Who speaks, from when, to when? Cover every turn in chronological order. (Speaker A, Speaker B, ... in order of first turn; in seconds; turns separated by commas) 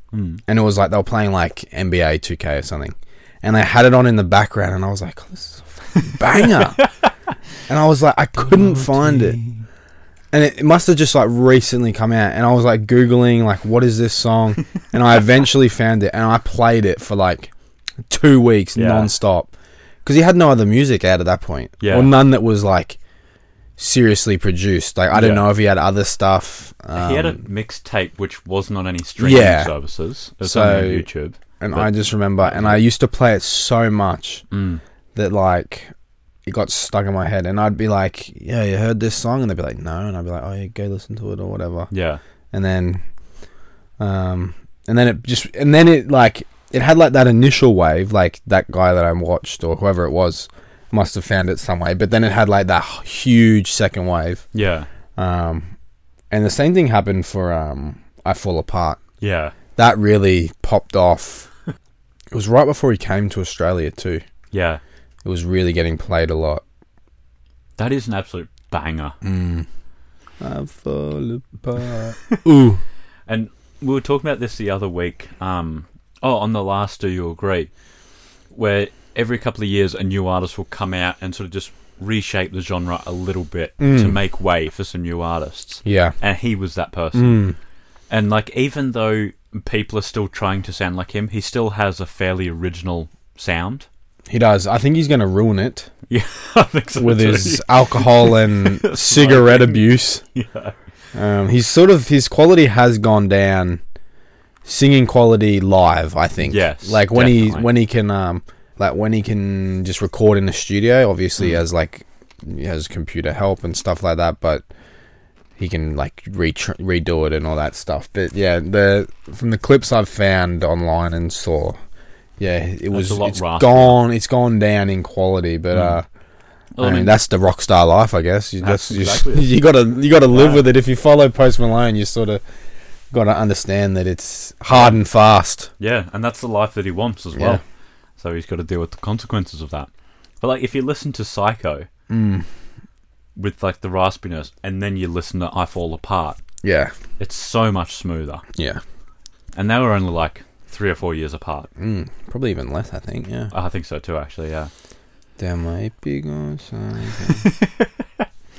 Speaker A: 0.1-0.4, Speaker B: 0.5-6.8, Speaker B: 7.7-9.4, Speaker B: 10.3-17.5, Speaker B: 18.1-19.5, Speaker A: 18.8-19.1, Speaker B: 20.1-23.0, Speaker A: 21.8-22.1, Speaker B: 23.8-27.4, Speaker A: 25.1-25.5, Speaker A: 26.9-32.8, Speaker B: 29.2-29.7, Speaker B: 30.4-31.1, Speaker B: 31.6-34.5, Speaker A: 34.5-34.8, Speaker B: 35.1-35.9, Speaker B: 36.5-41.9, Speaker A: 41.9-42.2, Speaker B: 42.5-43.0, Speaker B: 44.0-54.5, Speaker A: 54.5-54.9, Speaker B: 55.2-55.7, Speaker B: 56.3-59.0, Speaker A: 59.2-59.5, Speaker B: 59.8-61.5, Speaker B: 62.3-64.2, Speaker A: 64.5-64.8, Speaker B: 65.2-66.6, Speaker A: 67.8-69.2, Speaker B: 69.2-69.7, Speaker B: 70.4-72.8, Speaker A: 73.3-77.7, Speaker A: 78.5-87.4, Speaker B: 83.8-84.2, Speaker B: 85.8-86.2, Speaker B: 87.1-87.6, Speaker A: 88.1-93.9, Speaker B: 94.3-95.9, Speaker A: 96.1-100.8, Speaker B: 97.0-100.2, Speaker B: 101.1-103.8, Speaker B: 104.7-114.6, Speaker A: 106.5-107.7, Speaker B: 115.6-121.8, Speaker B: 122.4-126.1, Speaker A: 122.9-124.0, Speaker A: 126.8-127.2, Speaker B: 126.8-132.4, Speaker A: 128.6-129.5, Speaker A: 130.3-130.7, Speaker B: 133.1-135.7, Speaker A: 134.7-135.0, Speaker A: 135.8-137.6, Speaker B: 137.4-137.6, Speaker A: 138.2-139.9, Speaker A: 140.4-141.9, Speaker B: 142.1-142.5, Speaker A: 143.4-146.4, Speaker B: 146.6-146.9, Speaker A: 147.2-148.4, Speaker A: 149.6-151.7, Speaker B: 151.8-153.5, Speaker A: 153.5-154.7, Speaker B: 155.4-157.5, Speaker A: 157.4-158.2